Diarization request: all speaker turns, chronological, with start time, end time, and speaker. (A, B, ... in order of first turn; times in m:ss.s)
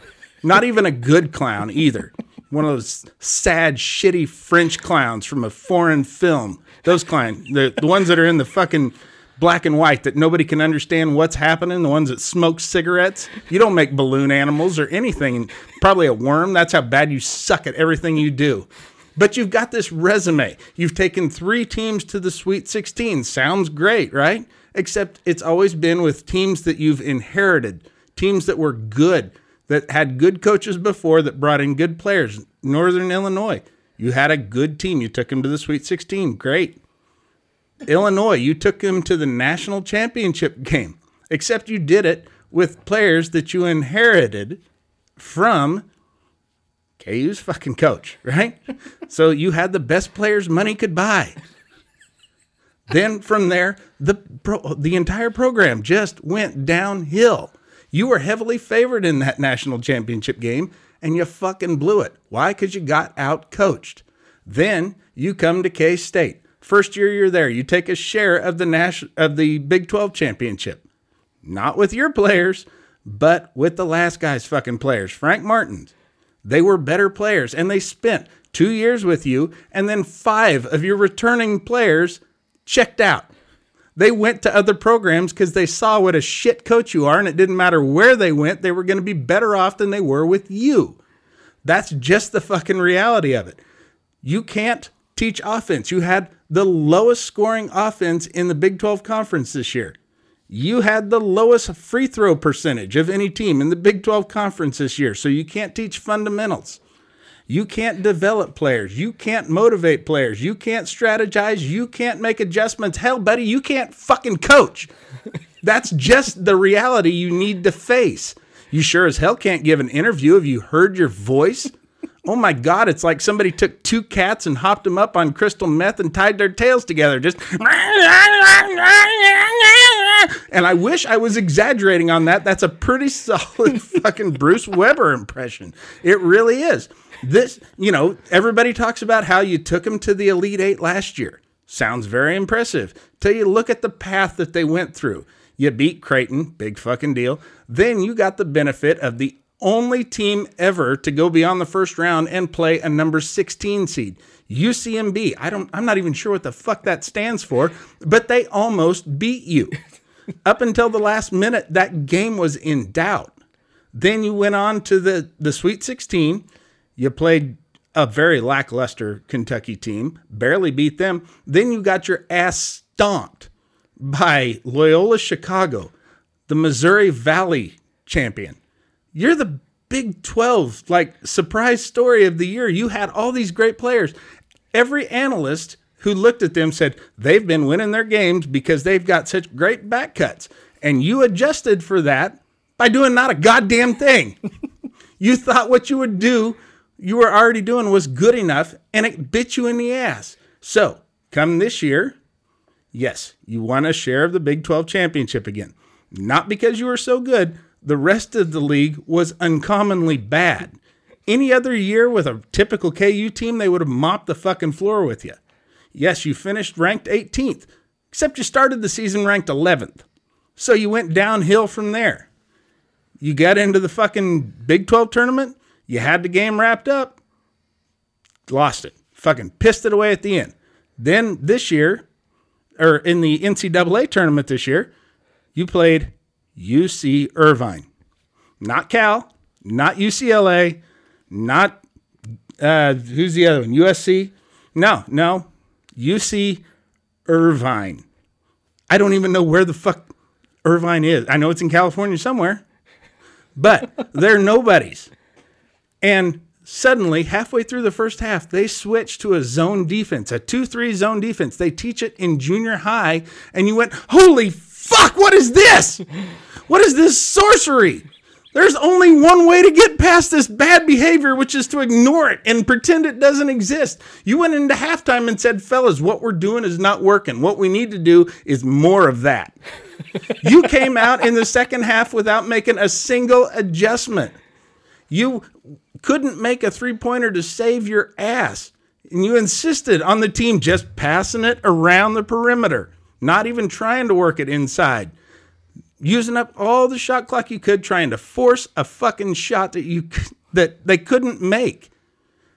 0:00.4-0:36.8 A
0:37.8-0:44.6 A
0:45.2-0:45.8 A
0:47.0-0:51.3 A
0:52.9-1:10.8 A
1:11.4-1:15.9 A
1:16.4-1:23.3 A
1:24.0-1:31.0 A
1:31.6-1:33.6 A
1:34.2-1:40.0 A
1:40.5-1:46.8 A
1:47.5-1:54.9 A
1:55.6-2:01.7 A
2:02.2-2:39.8 A
2:40.4-2:43.3 A
2:43.9-2:46.4 A
2:47.0-2:53.5 A
2:54.0-2:55.9 A
2:56.5-2:58.6 A
2:59.1-3:04.1 A
3:04.7-3:14.4 A
3:15.2-3:22.2 A
3:22.9-3:30.8 A
3:31.3-3:35.4 A
3:35.9-3:40.0 A
3:40.6-3:42.3 A
3:43.2-3:47.2 A
3:48.5-3:52.0 A
3:52.8-3:54.9 A
3:55.6-3:57.9 A
3:58.6-4:01.8 A
4:02.6-4:06.6 A
4:07.3-4:08.0 A
4:08.9-4:10.1 A
4:10.6-4:12.6 A
4:13.6-4:15.1 A
4:16.0-4:26.0 A
4:26.7-4:39.6 A
4:40.4-4:44.4 A
4:45.1-4:55.1 A
4:56.0-5:01.9 A